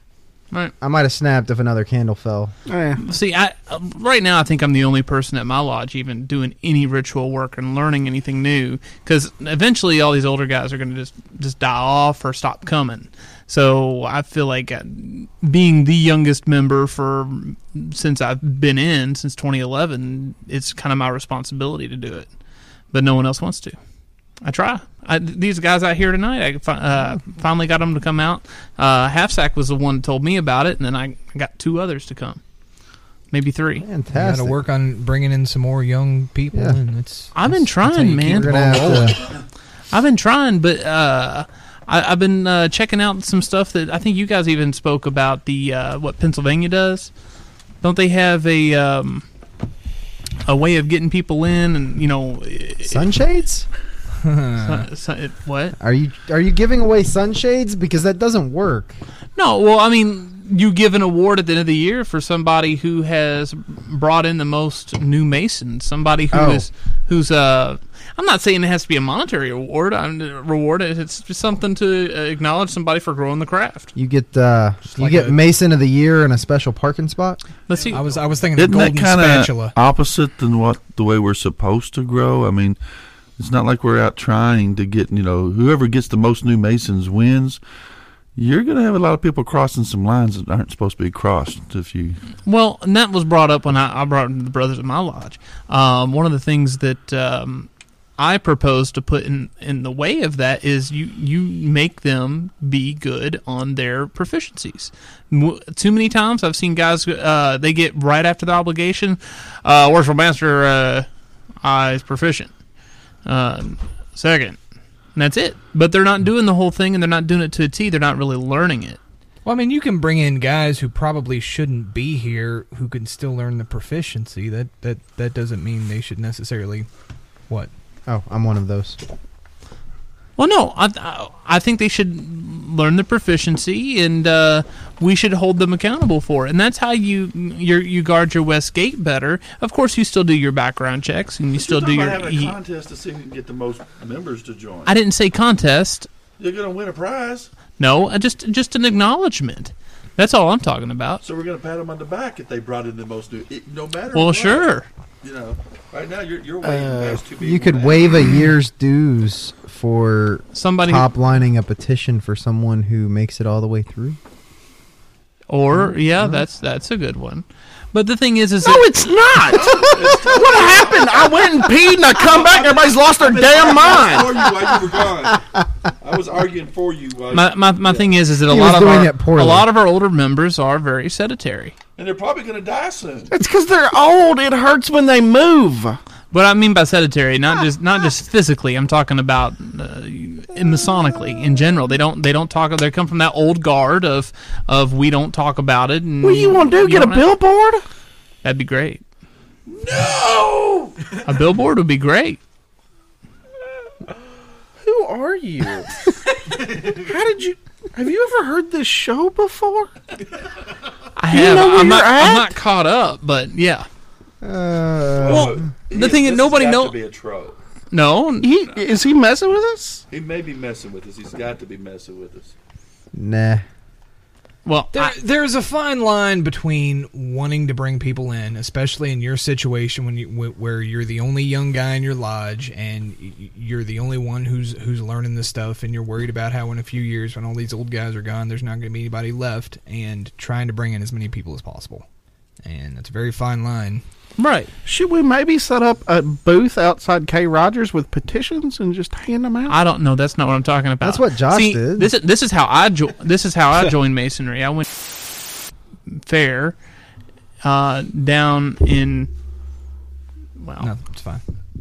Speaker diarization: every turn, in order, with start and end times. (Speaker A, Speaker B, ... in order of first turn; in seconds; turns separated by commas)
Speaker A: 0.8-2.5, Speaker B: 2.7-3.0, Speaker C: 3.0-22.3, Speaker C: 22.9-23.8, Speaker C: 24.4-32.4, Speaker C: 33.3-33.9, Speaker A: 33.8-34.6, Speaker D: 34.1-39.1, Speaker A: 36.5-36.8, Speaker C: 37.3-39.1, Speaker A: 38.1-39.2, Speaker C: 39.9-47.1, Speaker C: 47.8-49.2, Speaker C: 50.5-53.0, Speaker A: 52.9-53.6, Speaker D: 54.2-54.9, Speaker C: 54.6-55.7, Speaker A: 55.8-59.0, Speaker C: 59.4-73.9, Speaker A: 66.3-66.7, Speaker A: 73.9-77.4, Speaker D: 74.9-75.4, Speaker C: 77.7-78.0, Speaker D: 77.9-79.7, Speaker E: 78.5-82.8, Speaker E: 83.4-87.6, Speaker E: 88.3-92.2, Speaker C: 92.4-111.1, Speaker C: 111.6-112.5, Speaker C: 113.2-114.6, Speaker C: 115.1-119.0, Speaker D: 119.4-126.9, Speaker A: 128.1-129.0, Speaker C: 130.4-142.6, Speaker E: 141.5-144.9, Speaker C: 144.9-146.1, Speaker E: 146.4-147.5, Speaker C: 147.8-151.2, Speaker E: 151.2-154.7, Speaker C: 154.1-154.9, Speaker E: 155.2-158.3, Speaker A: 156.6-164.2, Speaker C: 160.5-161.1, Speaker C: 165.5-168.9, Speaker A: 165.8-166.4, Speaker B: 168.6-174.4, Speaker E: 169.6-171.5, Speaker E: 172.2-175.5, Speaker E: 176.0-178.1, Speaker C: 177.3-181.8, Speaker A: 178.5-179.7, Speaker E: 181.9-183.3, Speaker B: 183.3-186.0, Speaker C: 186.3-197.3, Speaker B: 196.2-197.8, Speaker C: 198.4-199.0, Speaker E: 199.7-200.9, Speaker C: 201.2-202.4, Speaker B: 204.8-205.9, Speaker B: 206.9-209.9, Speaker C: 211.2-213.8, Speaker B: 211.3-212.6, Speaker A: 214.4-215.7, Speaker E: 215.2-217.6, Speaker C: 215.3-216.9, Speaker C: 217.9-218.5, Speaker B: 218.4-220.0, Speaker E: 220.1-222.5, Speaker A: 223.1-223.6, Speaker C: 224.6-225.1, Speaker D: 224.9-242.0, Speaker D: 242.6-244.0, Speaker C: 244.4-244.7, Speaker B: 244.8-249.7, Speaker C: 249.7-255.2, Speaker A: 251.0-252.1, Speaker C: 256.2-256.8, Speaker C: 257.6-259.3, Speaker C: 260.6-260.9, Speaker D: 260.8-261.4